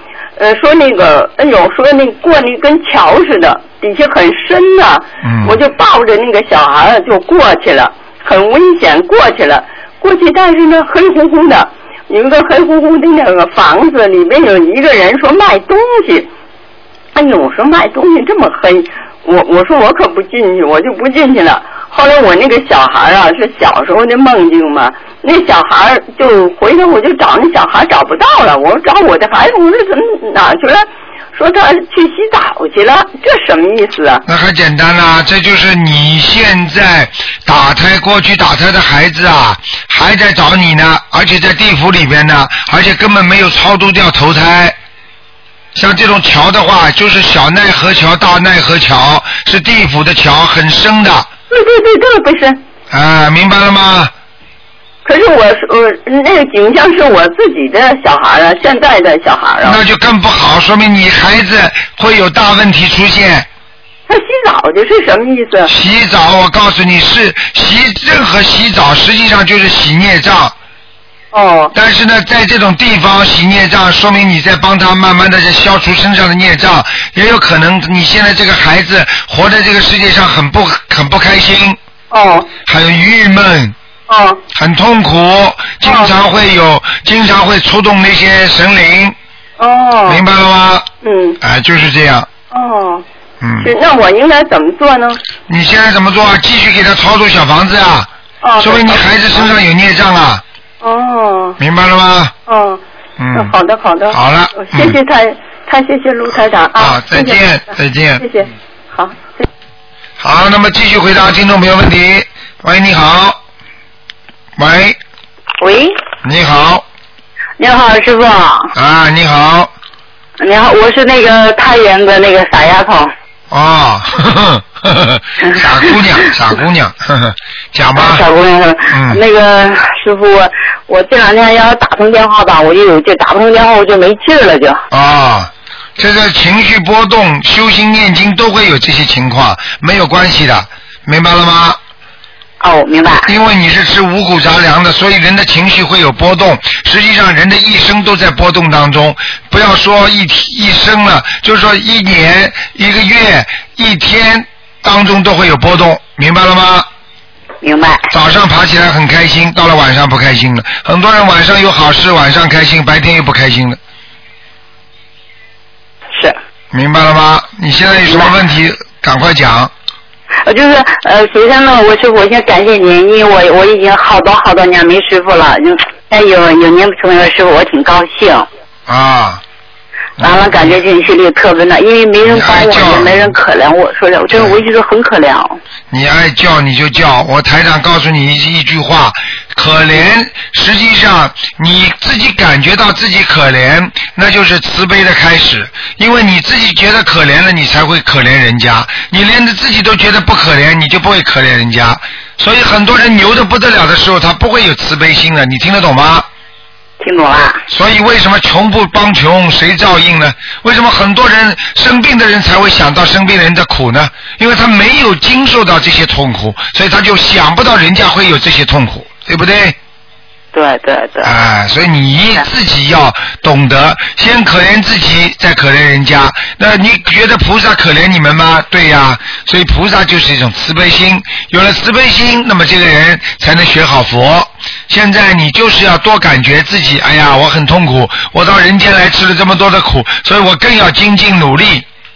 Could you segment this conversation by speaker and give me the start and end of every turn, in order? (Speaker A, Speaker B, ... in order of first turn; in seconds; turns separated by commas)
Speaker A: 0.4-16.3, Speaker B: 5.2-5.6, Speaker A: 17.1-34.2, Speaker B: 34.3-44.8, Speaker B: 45.8-51.3, Speaker A: 51.5-52.6, Speaker B: 52.9-54.1, Speaker A: 55.0-59.8, Speaker B: 59.6-63.5, Speaker A: 64.1-65.7, Speaker B: 65.7-70.5, Speaker A: 71.3-71.7, Speaker B: 71.7-81.8, Speaker A: 82.1-82.5, Speaker B: 82.7-83.8, Speaker A: 84.1-84.4, Speaker B: 84.5-89.2, Speaker A: 85.8-86.1, Speaker A: 89.6-90.2, Speaker B: 90.1-90.9, Speaker A: 91.0-91.4, Speaker B: 91.4-92.3, Speaker A: 92.5-93.0, Speaker B: 93.4-93.7, Speaker A: 93.6-95.2, Speaker B: 95.5-100.4, Speaker A: 98.4-99.5, Speaker A: 100.8-101.6, Speaker B: 101.6-102.3, Speaker A: 102.5-102.8, Speaker B: 103.2-103.5, Speaker A: 103.3-107.4, Speaker B: 104.1-105.0, Speaker B: 106.8-108.2, Speaker A: 108.2-109.5, Speaker B: 110.2-113.4, Speaker B: 114.6-115.0, Speaker C: 115.6-116.0, Speaker B: 116.2-116.8, Speaker C: 117.6-118.7, Speaker B: 118.7-119.7, Speaker C: 120.4-123.1, Speaker B: 123.5-128.2, Speaker C: 128.0-134.8, Speaker B: 128.9-129.2, Speaker B: 134.9-141.8, Speaker C: 142.6-143.3, Speaker B: 143.2-156.9, Speaker C: 157.6-158.1, Speaker B: 158.1-163.8, Speaker B: 166.7-169.7, Speaker C: 170.5-178.5, Speaker B: 178.9-179.4, Speaker B: 180.2-180.8, Speaker C: 180.2-185.6, Speaker B: 182.2-183.3, Speaker B: 184.3-184.6, Speaker B: 185.9-206.3, Speaker C: 207.0-207.6, Speaker B: 207.7-219.8, Speaker C: 220.5-221.3, Speaker B: 221.2-241.8